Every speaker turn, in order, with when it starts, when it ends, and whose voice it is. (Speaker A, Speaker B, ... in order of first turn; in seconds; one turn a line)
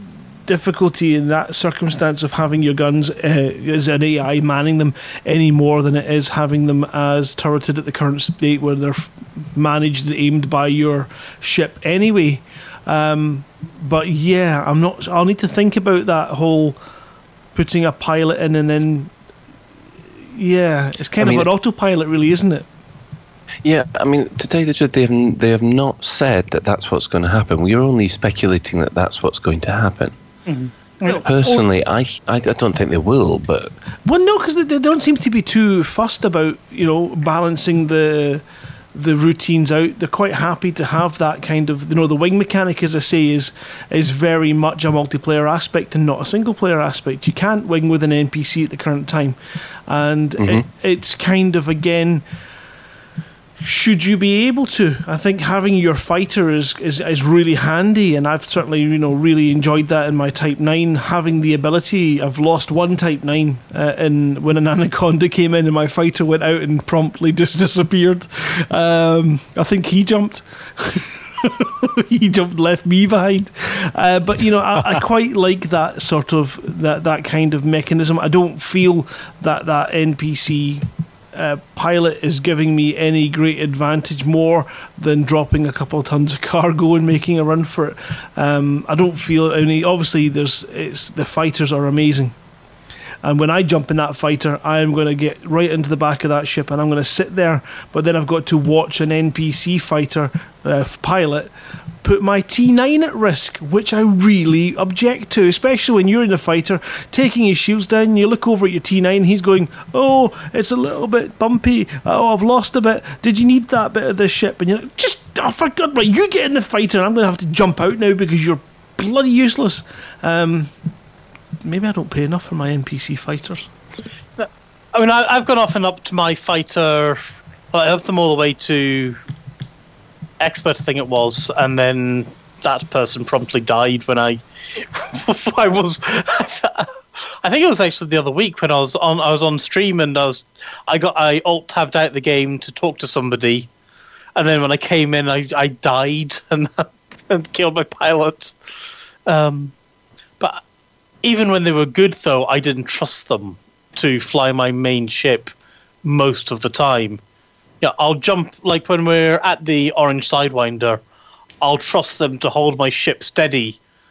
Speaker A: 0.5-16.8
Speaker A: 17.6-19.1
Speaker A: 20.4-22.7
Speaker B: 21.2-21.5
Speaker B: 23.6-30.1
Speaker C: 30.5-31.2
Speaker A: 31.1-31.6
Speaker B: 31.2-33.7
Speaker A: 34.0-52.2
Speaker B: 50.4-50.6
Speaker A: 53.6-92.3
Speaker A: 93.2-101.5
Speaker A: 102.0-120.7
Speaker A: 121.6-123.7
Speaker C: 124.4-127.2
Speaker C: 127.7-129.2
Speaker C: 130.4-134.4
Speaker C: 134.9-136.9
Speaker C: 137.4-143.7
Speaker C: 144.4-148.5
Speaker C: 149.3-149.7
Speaker C: 151.2-155.5
Speaker C: 156.0-157.2
Speaker C: 157.8-161.0
Speaker C: 161.6-163.8